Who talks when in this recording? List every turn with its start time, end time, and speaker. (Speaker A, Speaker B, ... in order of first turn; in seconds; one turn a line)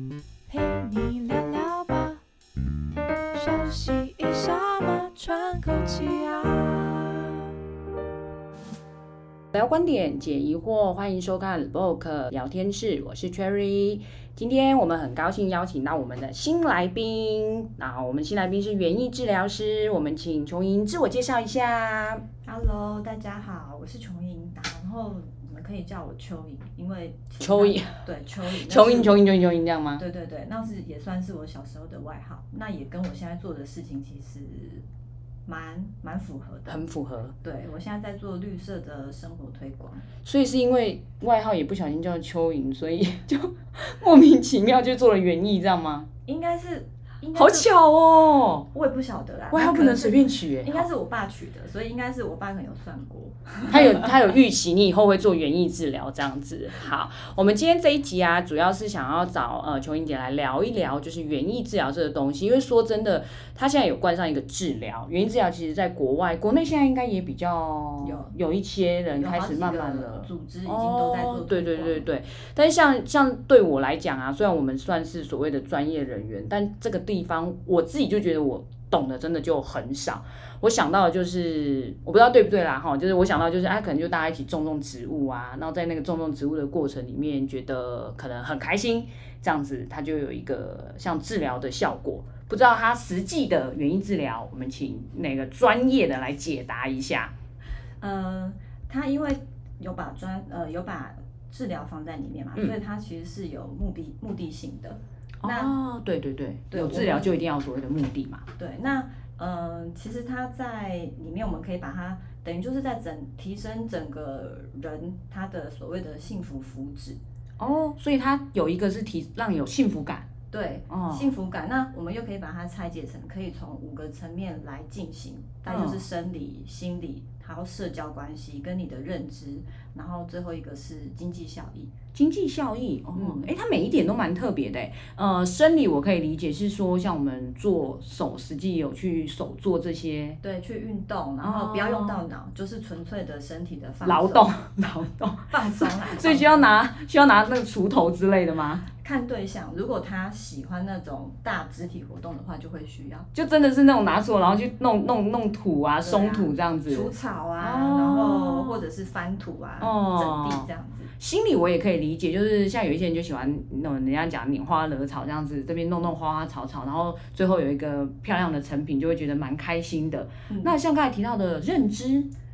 Speaker A: 0.5-2.2
Speaker A: 3.4-7.5
Speaker B: 9.5-22.2
Speaker C: 22.4-29.2
Speaker B: 27.4-28.0
Speaker B: 28.5-30.0
Speaker C: 30.0-34.9
Speaker C: 35.5-36.8
Speaker B: 36.7-37.3
Speaker C: 37.4-40.1
Speaker B: 40.2-46.1
Speaker C: 46.3-47.7
Speaker B: 47.3-48.7
Speaker C: 48.7-54.1
Speaker B: 49.5-50.9
Speaker B: 53.7-97.3
Speaker C: 68.0-68.3
Speaker C: 69.1-72.1
Speaker C: 98.0-105.8
Speaker B: 105.4-108.4
Speaker C: 106.7-107.4
Speaker C: 108.6-117.2
Speaker B: 117.6-120.3
Speaker C: 120.5-131.9
Speaker B: 120.9-121.3
Speaker B: 125.7-126.0
Speaker B: 132.1-140.4
Speaker C: 133.2-133.5
Speaker C: 140.4-144.5
Speaker B: 141.4-142.2
Speaker B: 144.0-148.9
Speaker C: 145.5-146.7
Speaker C: 149.0-153.3
Speaker B: 153.3-158.8
Speaker C: 156.0-161.1
Speaker B: 159.8-160.7
Speaker B: 161.2-172.3
Speaker C: 170.5-170.8